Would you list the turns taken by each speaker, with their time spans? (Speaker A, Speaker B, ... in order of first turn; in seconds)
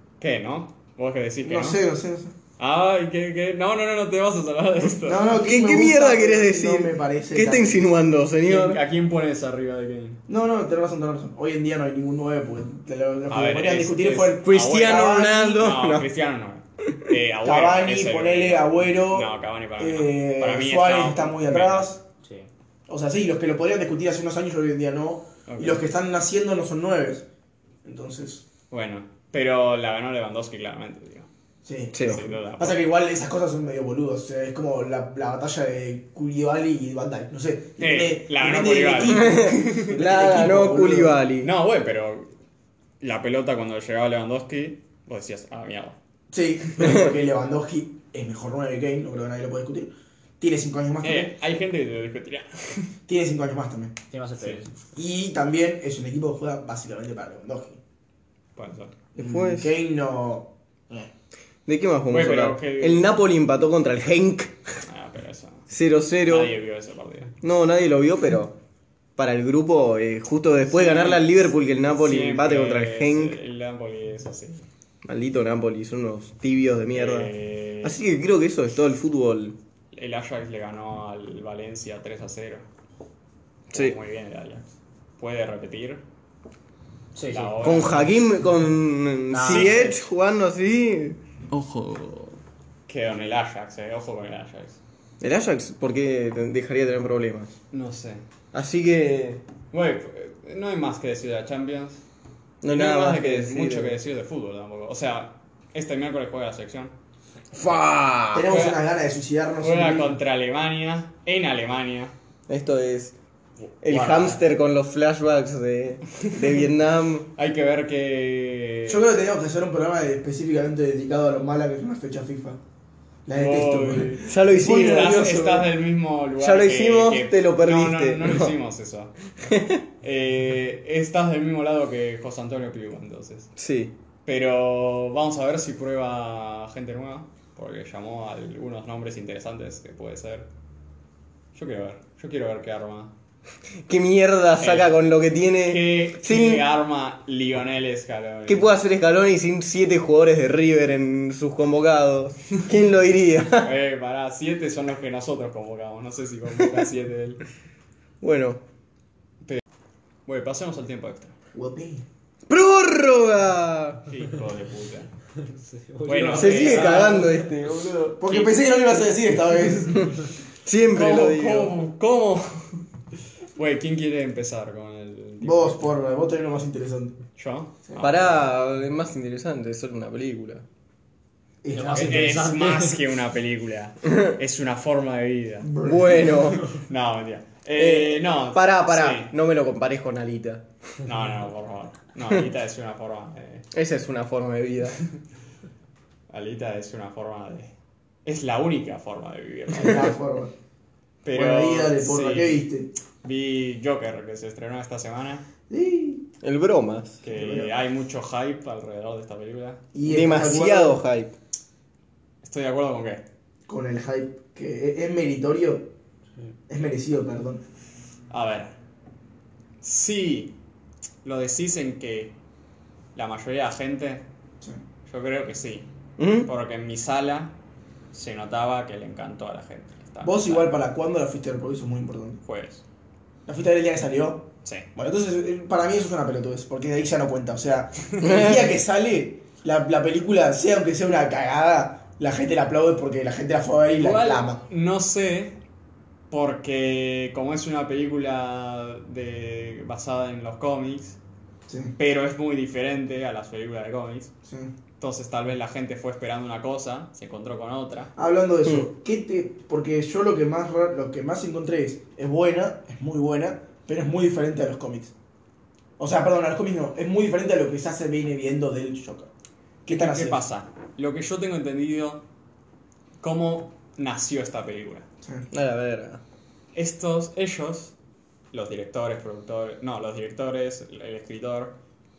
Speaker A: 0.2-1.8, 2.6-5.3, 8.4-10.2, 13.3-21.9, 25.5-25.9, 28.7-31.3, 32.0-32.8, 37.8-40.0, 41.4-42.3, 43.0-46.0, 51.0-52.9, 54.4-54.6, 58.6-58.9, 62.1-63.1, 64.9-65.7, 66.3-67.3, 70.7-74.7, 76.9-78.0, 79.9-82.7, 83.7-84.7, 85.2-86.0, 87.3-88.2, 89.4-90.1, 91.5-94.8, 97.7-98.2, 99.7-102.0, 102.6-106.9, 108.5-108.8, 109.6-112.1, 113.7-114.4, 116.2-116.6, 117.3-119.1, 123.3-129.1, 130.0-133.5, 134.2-140.5, 141.5-143.1, 144.6-145.0, 145.6-148.7, 153.6-157.4, 160.3-161.3, 164.1-165.1, 166.1-167.3, 168.3-168.6, 170.9-172.9, 173.6-175.8, 177.4-178.4, 181.9-185.7, 186.6-189.3, 191.0-193.7, 196.3-197.7, 198.2-200.2, 201.2-202.7, 203.2-205.4, 207.2-209.8, 212.4-213.2, 218.3-218.7, 219.8-220.5, 221.2-222.3, 223.2-224.2, 225.1-225.9, 226.4-227.6, 228.1-230.7, 232.4-232.8, 244.0-245.6, 246.3-251.2, 252.0-254.3, 255.0-258.1, 269.9-272.2, 273.2-275.1, 276.8-277.9, 278.5-281.7
Speaker B: 1.4-2.3, 5.0-7.9, 10.3-15.5, 17.4-22.0, 22.9-27.2, 27.9-28.4, 31.6-41.2, 46.3-51.3, 53.1-53.9, 55.0-57.8, 59.1-61.1, 108.3-110.2, 118.9-122.6, 123.3-125.7, 161.5-162.1, 168.0-170.2, 175.4-177.2, 181.6-182.5, 185.6-186.4, 199.7-200.5, 201.3-202.9, 205.7-206.2, 207.3-207.7, 209.9-211.0, 213.7-215.9, 216.7-217.6, 230.2-232.4, 233.5-244.6, 251.7-251.9, 254.5-254.7, 258.2-265.1, 266.0-269.3, 269.9-270.4
Speaker C: 5.4-8.8, 14.4-16.1, 31.9-32.2, 39.0-41.5, 59.2-59.8, 61.7-64.7, 65.7-66.5, 67.4-68.5, 69.2-73.4, 75.0-79.6, 83.7-84.0, 87.6-91.2, 95.2-97.5, 98.5-99.4, 102.6-104.0, 107.5-108.5, 112.5-113.2, 113.8-117.3, 124.2-125.2, 126.4-128.5, 129.4-129.8, 133.6-133.9, 143.8-146.7, 148.5-153.7, 158.2-158.6, 162.5-164.1, 166.3-168.1, 170.7-171.7, 178.0-180.7, 185.8-186.7, 187.8-190.6, 193.7-195.0, 206.4-207.2, 210.0-211.3, 226.2-226.5, 238.2-238.7, 275.5-276.2
Speaker D: 54.1-54.7, 87.2-87.6, 89.3-89.9, 165.4-167.4, 181.7-183.0